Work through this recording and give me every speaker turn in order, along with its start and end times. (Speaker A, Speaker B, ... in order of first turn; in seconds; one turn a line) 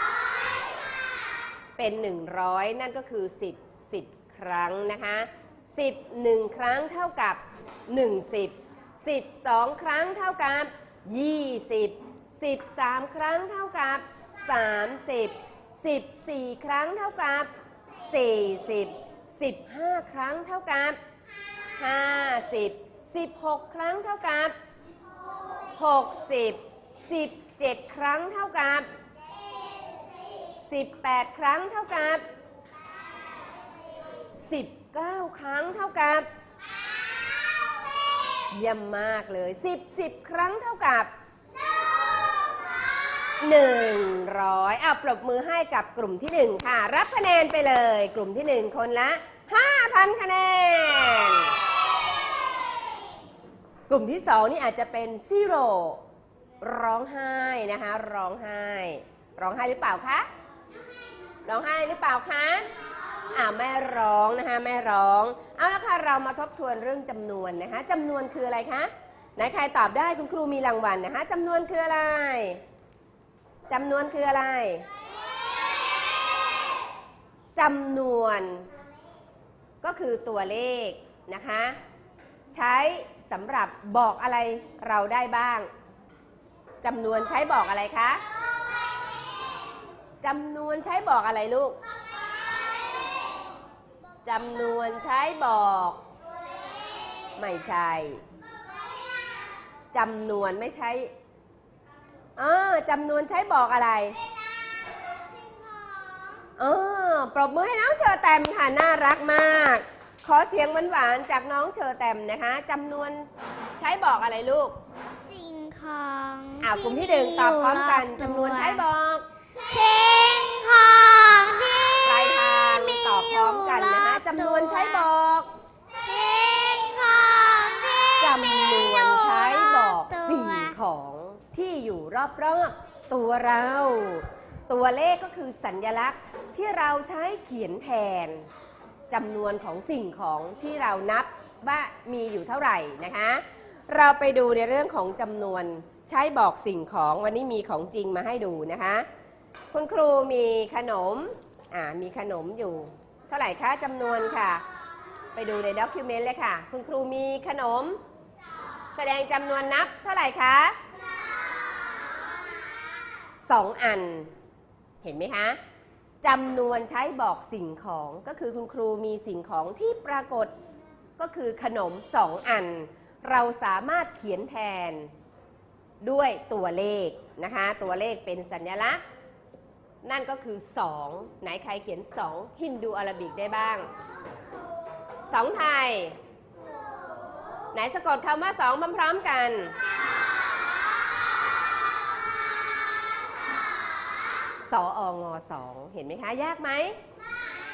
Speaker A: 1.8-17.5
Speaker A: 18.0-21.0
Speaker A: 21.8-24.6
Speaker A: 25.8-28.9
Speaker A: 30.6-32.2
Speaker A: 34.4-36.3
Speaker A: 38.5-41.1
Speaker A: 43.4-51.5
Speaker A: 53.9-56.0
Speaker A: 56.6-60.3
Speaker A: 61.5-62.7
Speaker A: 63.3-72.6
Speaker A: 73.7-74.9
Speaker A: 77.5-78.7
Speaker A: 79.8-81.8
Speaker A: 82.5-85.7
Speaker A: 86.8-88.2
Speaker A: 90.2-91.8
Speaker A: 94.2-96.0
Speaker A: 97.4-98.2
Speaker A: 99.9-101.1
Speaker A: 102.4-104.2
Speaker A: 106.6-113.3
Speaker A: 113.8-114.8
Speaker B: 115.3-118.8
Speaker A: 116.6-119.3
Speaker B: 119.7-122.0
Speaker A: 122.0-125.5
Speaker B: 124.0-124.8
Speaker B: 126.0-128.2
Speaker A: 128.2-138.5
Speaker B: 130.1-130.7
Speaker A: 139.1-149.1
Speaker A: 149.7-154.6
Speaker A: 155.3-158.0
Speaker A: 159.0-160.8
Speaker A: 163.4-164.3
Speaker A: 165.0-165.6
Speaker A: 166.2-170.5
Speaker A: 171.2-175.1
Speaker A: 176.0-179.0
Speaker A: 180.0-183.9
Speaker A: 185.3-186.2
Speaker A: 187.7-189.8
Speaker A: 194.6-197.0